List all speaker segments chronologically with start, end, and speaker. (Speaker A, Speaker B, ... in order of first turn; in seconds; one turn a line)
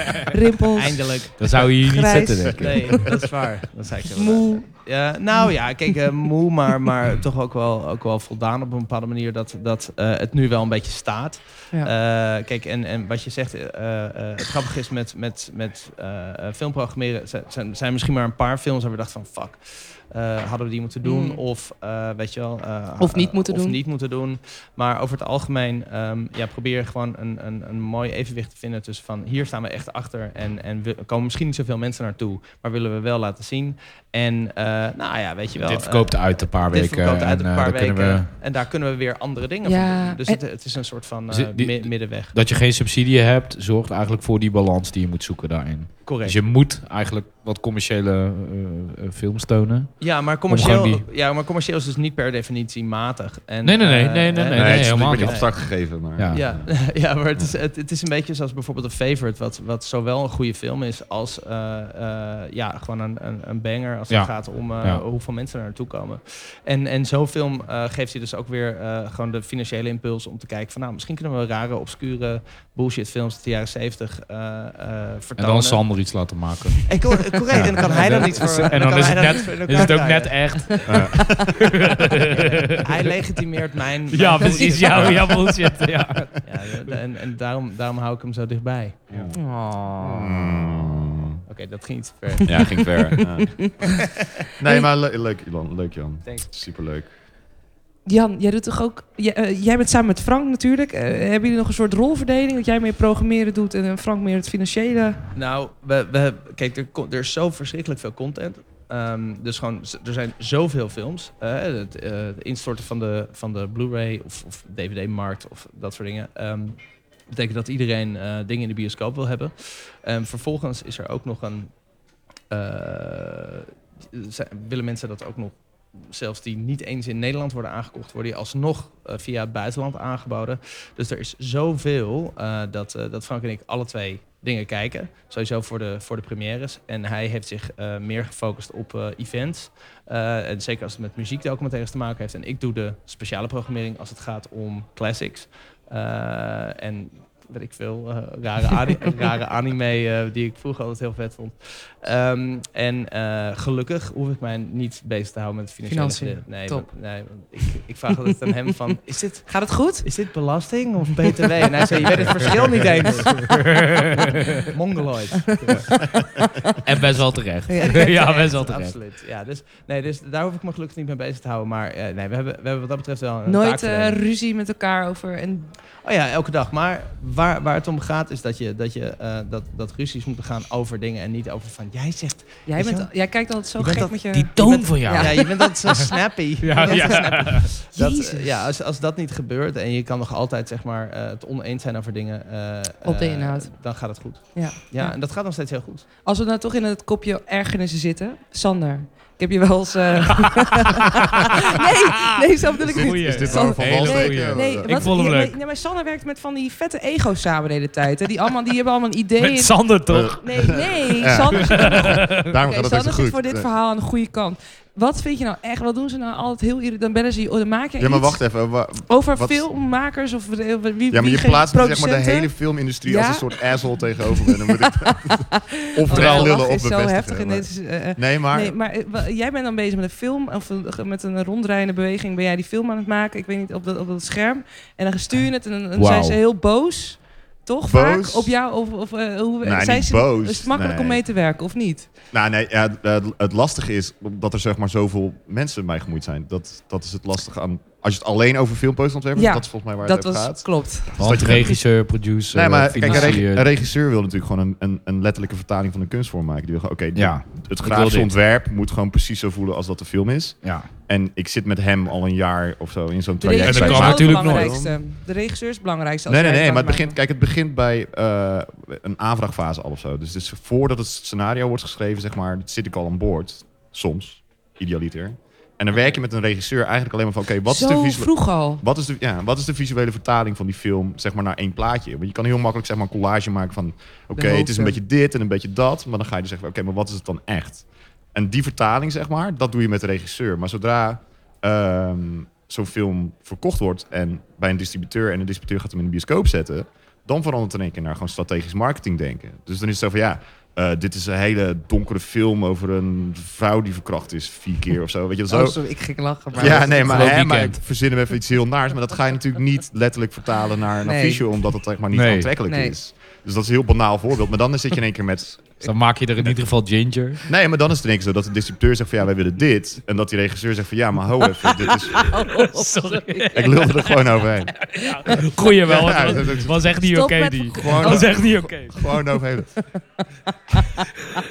Speaker A: 0.2-3.1
Speaker B: 0.7-1.7
Speaker C: 1.4-3.1
Speaker B: 2.5-42.3
Speaker A: 4.1-4.7
Speaker A: 21.0-21.4
Speaker A: 23.0-23.8
Speaker C: 35.6-38.3
Speaker A: 39.6-40.4
Speaker C: 41.3-51.0
Speaker B: 46.0-46.4
Speaker B: 50.0-75.9
Speaker C: 53.6-55.5
Speaker D: 54.5-57.5
Speaker C: 56.1-56.4
Speaker C: 64.1-65.0
Speaker C: 75.4-77.0
Speaker B: 76.8-80.9
Speaker C: 77.5-82.8
Speaker D: 80.8-81.5
Speaker B: 82.3-85.5
Speaker C: 84.1-86.4
Speaker A: 84.4-84.8
Speaker D: 84.9-85.3
Speaker B: 86.4-89.3
Speaker D: 89.1-91.4
Speaker A: 89.3-90.7
Speaker B: 91.5-93.1
Speaker D: 92.4-97.1
Speaker A: 92.5-93.4
Speaker A: 94.6-94.9
Speaker A: 98.0-105.2
Speaker B: 105.3-121.7
Speaker B: 122.5-163.9
Speaker A: 155.8-156.9
Speaker A: 159.5-160.1
Speaker A: 162.8-163.5
Speaker C: 163.4-164.2
Speaker B: 164.6-165.9
Speaker C: 166.8-168.9
Speaker A: 167.7-168.2
Speaker B: 167.8-174.2
Speaker A: 173.4-175.7
Speaker B: 176.0-183.2
Speaker A: 182.7-186.1
Speaker B: 183.7-196.1
Speaker C: 184.3-186.1
Speaker C: 186.6-187.7
Speaker A: 186.7-188.5
Speaker A: 193.0-193.7
Speaker A: 194.5-195.2
Speaker A: 196.2-242.1
Speaker D: 202.8-205.1
Speaker C: 202.8-205.6
Speaker C: 209.4-210.8
Speaker D: 210.1-213.7
Speaker C: 211.5-212.4
Speaker D: 218.0-219.7
Speaker D: 221.1-228.8
Speaker C: 226.1-226.6
Speaker C: 235.9-236.4
Speaker D: 237.8-238.5
Speaker D: 239.6-241.2
Speaker D: 242.3-265.0
Speaker A: 249.3-251.6
Speaker C: 251.2-253.7
Speaker A: 253.1-253.4
Speaker C: 257.1-258.3
Speaker C: 260.6-260.9
Speaker A: 263.4-267.1
Speaker C: 263.6-264.8
Speaker D: 266.3-306.0
Speaker A: 277.7-278.8
Speaker A: 284.3-285.0
Speaker A: 305.5-307.4
Speaker D: 306.5-315.9
Speaker C: 306.6-307.8
Speaker A: 311.0-311.4
Speaker C: 312.1-312.5
Speaker A: 312.6-312.9
Speaker C: 315.8-317.4
Speaker D: 317.4-322.5
Speaker A: 322.2-324.0
Speaker C: 322.4-324.0
Speaker D: 323.5-327.0
Speaker C: 324.9-329.0
Speaker A: 325.1-325.5
Speaker A: 326.0-328.4
Speaker D: 327.7-329.9